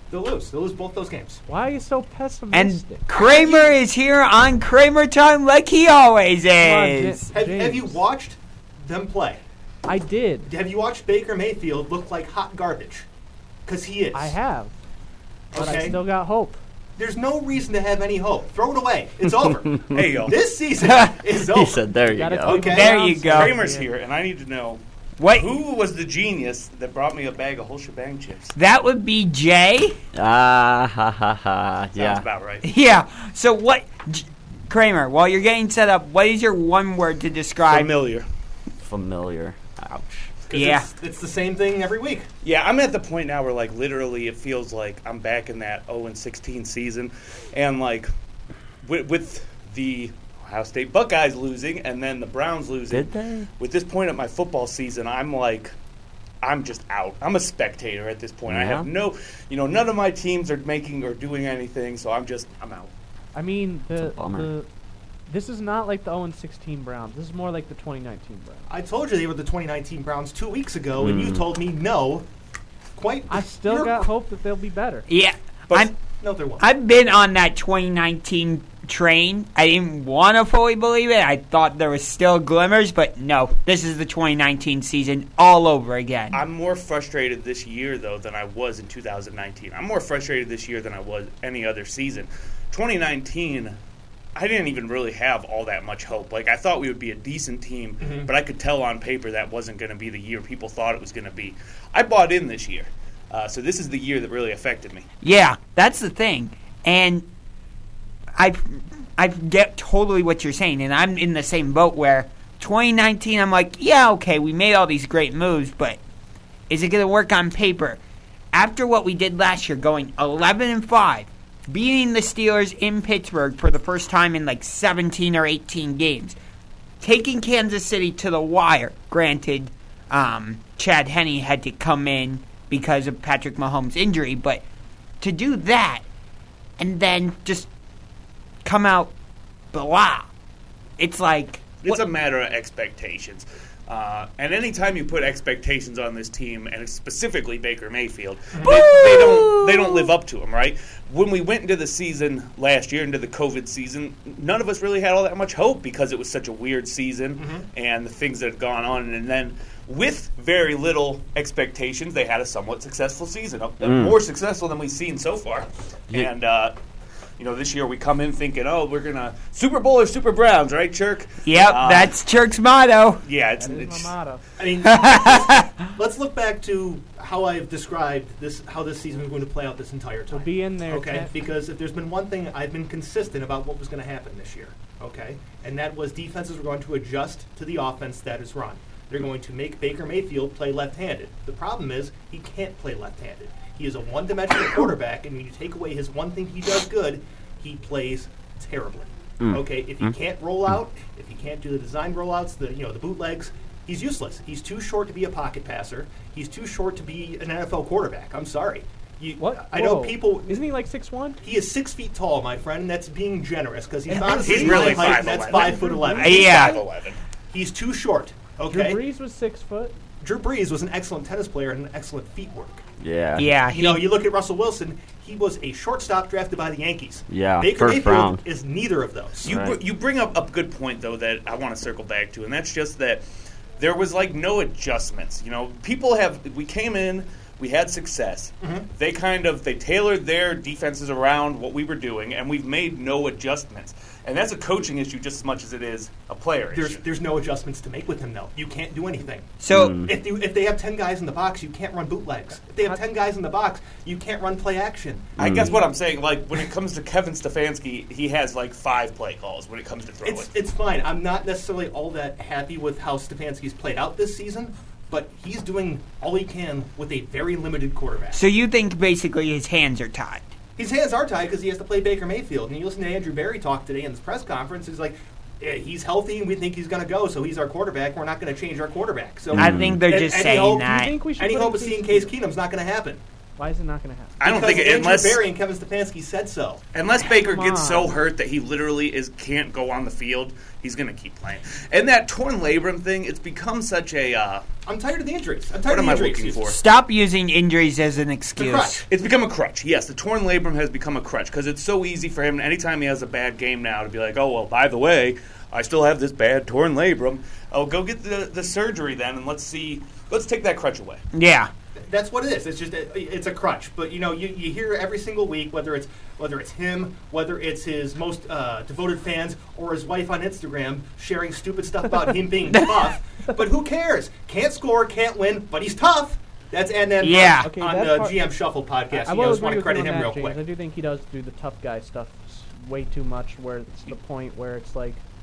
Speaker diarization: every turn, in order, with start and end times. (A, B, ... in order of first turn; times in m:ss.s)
0:00.1-0:01.4 A
0:01.5-0:03.0 B
0:02.5-0:07.2 C
0:03.1-0:03.7 A
0:06.6-0:08.0 B
0:07.3-0:09.4 A
0:09.8-0:10.5 B
0:10.4-0:13.0 A
0:13.6-0:14.4 A
0:14.1-0:14.8 B
0:15.5-0:16.0 A
0:15.5-0:16.6 B
0:17.0-0:21.8 A
0:19.4-0:20.1 D
0:19.9-0:20.3 E
0:21.4-0:22.6 D
0:22.1-0:23.9 B
0:22.4-0:23.6 A
0:22.6-0:23.6 C
0:23.3-0:28.5 E
0:25.2-0:25.5 C
0:28.6-0:30.0 C
0:30.1-0:32.2 D
0:31.9-0:32.6 E
0:32.6-0:37.9 C
0:37.7-0:38.3 E
0:38.8-0:40.3 D
0:40.5-0:42.3 A
0:40.5-0:40.9 C
0:42.4-0:48.1 E
0:48.8-0:55.7 E
0:52.9-0:53.5 D
0:56.4-1:02.9 E
0:58.4-0:58.9 D
1:03.3-1:04.7 B
1:04.0-1:04.5 D
1:05.3-1:08.6 B
1:08.7-1:12.2 A
1:11.0-1:11.4 D
1:12.9-1:14.1 A
1:13.3-1:15.0 B
1:15.1-1:15.9 C
1:15.7-1:16.6 A
1:16.6-1:26.4 C
1:26.3-1:33.8 E
1:34.4-1:45.0 E
1:38.0-1:38.3 A
1:45.2-1:47.2 C
1:48.3-1:56.0 C
1:56.7-1:58.0 C
1:58.5-2:06.4 C
2:07.0-2:14.6 C
2:15.2-2:16.0 C
2:16.8-2:17.7 C
2:18.6-2:19.1 C
2:19.7-2:20.3 C
2:21.0-2:22.0 C
2:21.8-2:46.7 E
2:28.5-2:28.9 A
2:28.6-2:30.1 C
2:37.4-2:37.7 A
2:43.8-2:44.2 D
2:47.4-2:52.1 E
2:51.4-2:53.2 C
2:53.2-2:54.1 E
2:53.6-2:54.4 B
2:54.6-3:30.6 A
2:54.8-2:55.7 C
3:00.3-3:01.3 B
3:19.4-3:20.2 D
3:29.4-3:31.4 B
3:31.4-3:36.6 A
3:34.0-3:36.7 B
3:34.3-3:37.2 E
3:36.1-3:36.8 C
3:37.5-3:39.0 A
3:38.7-3:40.0 B
3:40.2-3:42.8 A
3:43.0-3:43.5 D
3:43.4-3:44.1 C
3:43.7-3:49.6 A
3:47.3-3:48.4 D
3:49.4-3:49.8 D
3:49.4-3:53.2 E
3:53.8-4:07.0 E
3:58.6-3:58.9 A
4:06.7-4:09.5 A
4:09.6-4:09.9 C
4:09.7-4:10.2 D
4:10.0-4:15.4 A
4:15.4-4:15.8 D
4:15.4-4:20.5 E
4:20.2-4:28.4 A
4:28.3-4:30.4 C
4:30.8-4:43.2 A
4:39.5-4:40.0 D
4:39.5-4:41.1 C
4:40.9-4:42.3 B
4:43.6-4:44.4 B
4:44.4-4:45.4 E
4:44.4-4:46.8 A
4:46.9-4:54.6 E
4:47.2-4:48.2 B
4:54.8-4:56.7 A
4:55.9-4:56.8 E
4:56.7-4:59.0 C
4:58.6-4:59.0 A
4:59.1-5:11.2 E
5:11.3-5:11.7 C
5:12.0-5:30.6 A
5:22.7-5:23.0 C
5:27.2-5:27.7 C
5:27.6-5:28.4 B
5:29.1-5:35.2 B